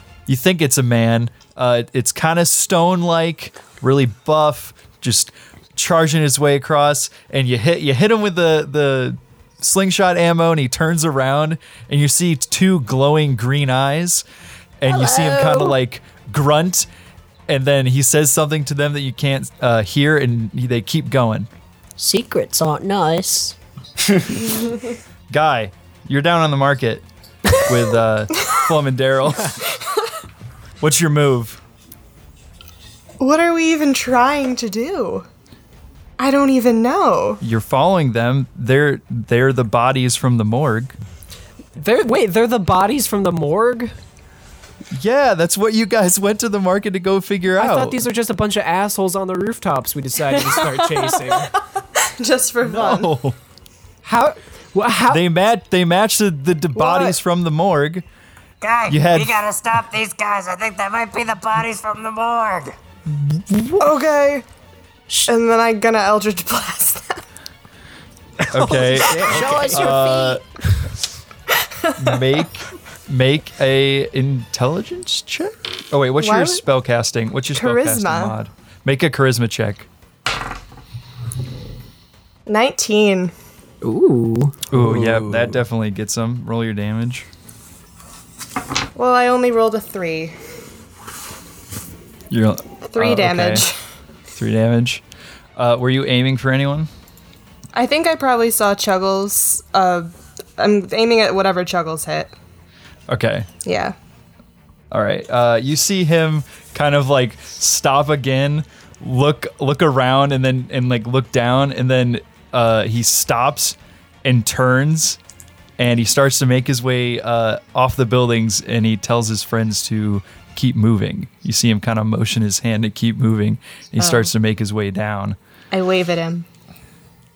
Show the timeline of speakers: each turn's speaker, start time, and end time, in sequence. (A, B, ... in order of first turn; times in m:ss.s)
0:00.3-0:14.2 A
0:14.8-0:16.9 A
0:14.9-0:15.8 B
0:17.5-0:21.5 A
0:22.0-0:23.6 B
0:25.3-0:29.6 A
0:30.8-0:31.6 A
0:33.2-0:35.2 C
0:36.2-0:37.4 C
0:37.4-0:40.9 A
0:41.8-0:43.9 D
0:44.9-0:48.0 A
0:47.5-0:51.5 D
0:52.2-0:53.1 C
0:52.6-0:53.4 A
0:54.0-0:55.2 D
0:55.1-0:58.0 A
0:56.8-0:57.2 C
0:58.6-1:02.7 E
0:58.9-0:59.4 A
1:00.1-1:00.8 B
1:03.3-1:03.8 A
1:03.8-1:04.4 C
1:05.2-1:07.2 C
1:08.4-1:10.0 E
1:08.5-1:10.4 A
1:09.1-1:10.4 B
1:11.8-1:12.4 C
1:12.0-1:19.9 A
1:16.2-1:16.6 C
1:17.5-1:18.4 C
1:22.5-1:23.3 C
1:23.8-1:24.6 D
1:24.7-1:27.3 A
1:24.7-1:25.6 E
1:29.0-1:30.3 C
1:32.3-1:33.6 A
1:32.9-1:33.7 C
1:34.4-1:35.0 A
1:35.6-1:36.9 A
1:37.7-1:42.3 C
1:43.1-1:43.5 A
1:43.6-1:43.9 C
1:44.9-1:55.2 A
1:55.8-2:05.4 A
2:04.0-2:04.3 C
2:05.7-2:06.4 C